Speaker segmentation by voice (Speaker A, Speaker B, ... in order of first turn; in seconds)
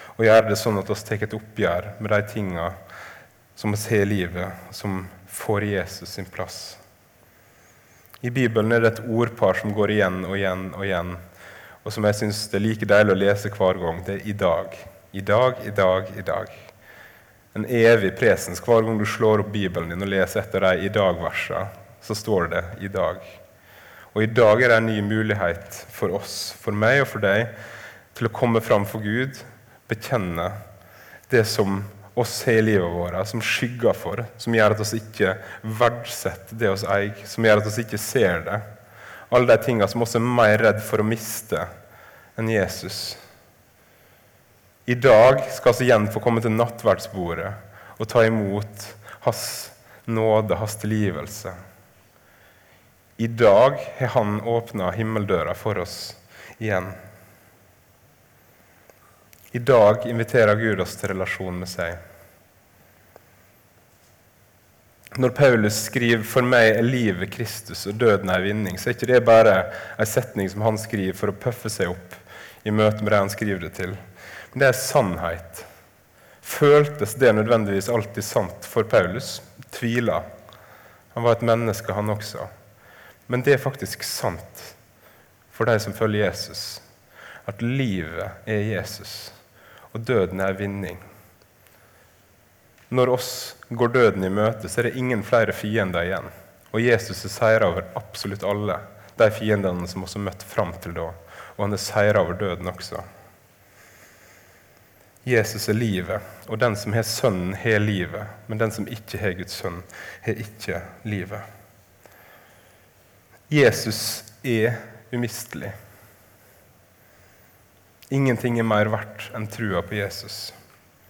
Speaker A: 0.2-2.8, 3.6-6.8, 8.2-11.2, 11.8-16.6, 17.5-23.4, 24.1-27.5, 28.1-30.6, 31.3-38.6, 39.3-41.7, 42.4-43.2, 44.9-51.5, 53.2-57.0, 59.5-62.0, 65.2-74.0, 74.5-75.7, 76.4-80.3, 81.1-82.5, 83.3-84.8, 85.5-86.8, 87.5-89.4, 89.9-91.0, 92.9-103.0, 105.2-111.5, 113.5-115.7, 118.1-120.6